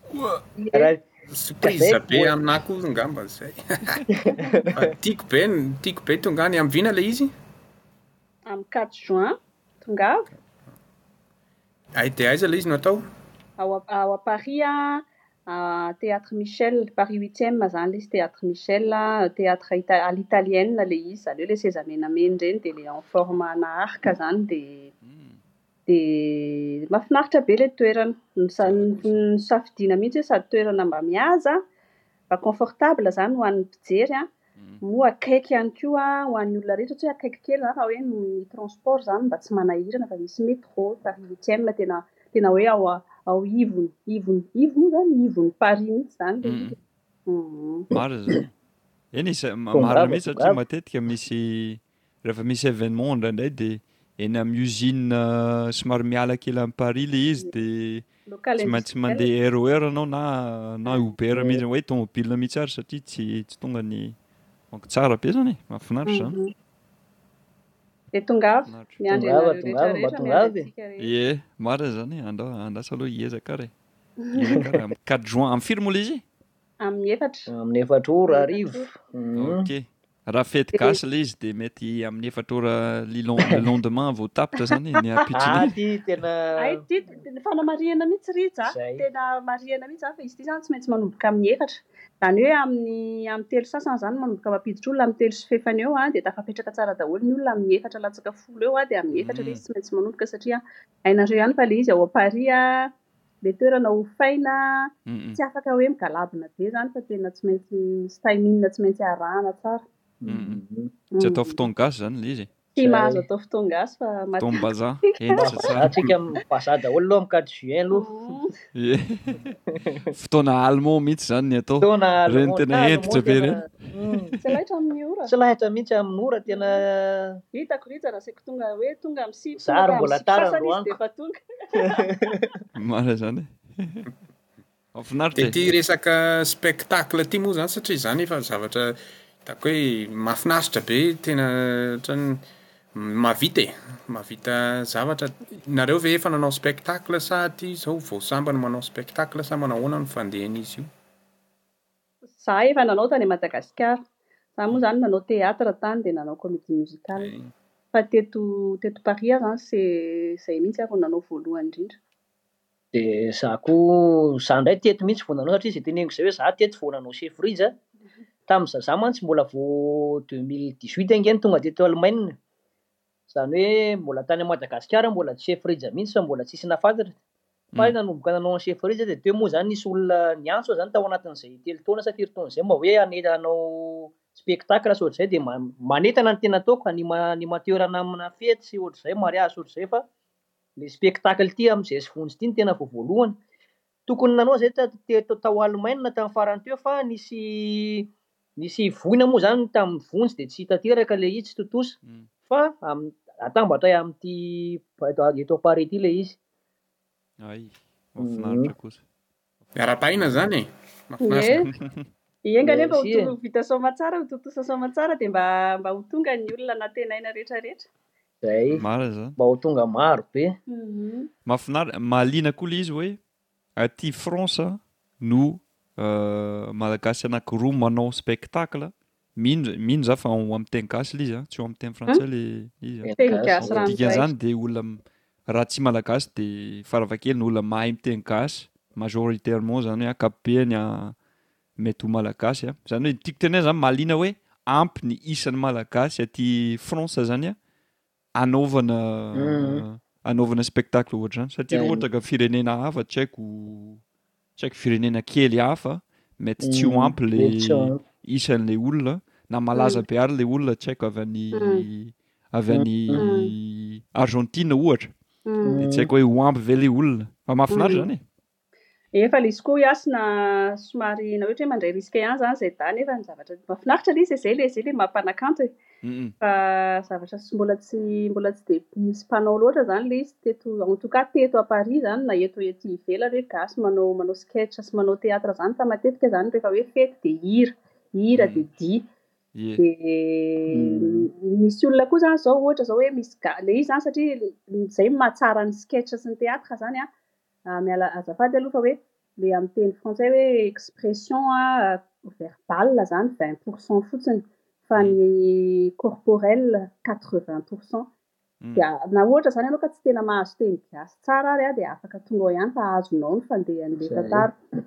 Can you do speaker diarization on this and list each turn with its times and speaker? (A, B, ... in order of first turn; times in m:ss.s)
0:00.6-0:00.9 A
0:00.7-0:01.0 B
0:01.3-0:04.0 C
0:01.6-0:02.4 B
0:04.1-0:04.9 B
0:04.3-0:04.6 A
0:04.7-0:07.3 C
0:08.5-0:10.3 A
0:11.9-0:13.0 C
0:13.6-0:24.9 A
0:25.0-0:25.4 D
0:25.9-0:31.6 A
0:28.6-0:29.3 D
0:32.3-0:34.3 A
0:34.6-0:34.8 D
0:34.8-0:46.8 A
0:46.4-0:46.8 D
0:47.3-0:47.9 A
0:47.9-0:48.5 D
0:47.9-0:48.4 B
0:49.1-0:58.1 D
0:49.7-0:50.6 B
0:58.3-0:59.3 A
0:58.6-1:04.2 D
1:00.8-1:01.1 A
1:01.3-1:01.6 B
1:04.7-1:06.4 D
1:06.1-1:06.5 A
1:08.1-1:11.1 A
1:08.7-1:09.0 D
1:09.1-1:10.7 B
1:11.0-1:13.7 D
1:14.3-1:16.2 D
1:16.8-1:17.5 A
1:17.5-1:19.7 B
1:18.3-1:18.9 A
1:19.4-1:25.8 D
1:20.7-1:21.0 A
1:25.3-1:26.8 B
1:26.6-1:49.8 A
1:28.6-1:29.1 B
1:39.1-1:39.6 D
1:45.1-1:45.4 D
1:50.2-1:50.9 B
1:50.3-1:50.6 D
1:51.1-1:51.6 A
1:51.2-1:52.5 D
1:52.8-1:55.8 A
1:52.8-1:53.3 B
1:54.4-1:56.1 D
1:55.4-1:58.3 B
1:57.9-1:58.5 A
1:58.7-1:59.6 D
1:59.7-2:00.1 B
2:00.1-2:04.4 D
2:01.8-2:04.4 B
2:04.4-2:05.3 A
2:05.3-2:07.4 B
2:06.5-2:06.8 A
2:07.5-2:12.4 A
2:09.6-2:11.0 B
2:11.8-2:12.5 B
2:12.8-2:14.1 D
2:14.9-2:15.6 D
2:15.4-2:22.4 C
2:22.9-2:30.9 C
2:32.3-2:34.0 A
2:34.6-2:37.3 A
2:37.2-2:37.5 C
2:37.9-2:42.0 A
2:42.9-2:47.8 B
2:48.5-2:52.4 B
2:53.3-2:57.1 B
2:57.8-3:10.0 B
3:10.8-3:13.4 B
3:14.1-3:26.4 B
3:27.4-3:29.0 D
3:28.2-3:28.7 B
3:29.7-3:30.4 D
3:29.8-3:31.7 C
3:31.2-3:31.7 A
3:31.7-3:32.0 D
3:32.4-3:37.9 A
3:32.6-3:33.4 B
3:38.4-3:38.8 B
3:38.7-3:39.4 D
3:39.4-3:40.6 B
3:40.7-3:41.3 A
3:41.5-3:43.2 D
3:43.8-4:01.2 D
3:53.0-3:54.0 B
3:53.2-3:54.3 A
4:01.8-4:07.6 D
4:08.4-4:14.0 D
4:09.3-4:09.8 B
4:11.7-4:12.0 B
4:14.6-4:25.1 D
4:16.6-4:18.0 B
4:19.8-4:20.0 A
4:21.5-4:21.9 A
4:22.7-4:23.3 B
4:23.1-4:23.5 A
4:25.5-4:25.8 A
4:25.6-4:26.1 B
4:25.8-4:28.2 D
4:27.7-4:28.1 A
4:29.1-4:35.8 A
4:36.0-4:36.4 D
4:36.4-4:49.0 A
4:48.3-4:48.6 D
4:49.6-4:49.8 D
4:49.8-4:57.1 A
4:50.7-4:51.3 B
4:57.7-5:08.1 A
5:08.6-5:08.9 D
5:08.8-5:14.6 A
5:14.0-5:14.5 B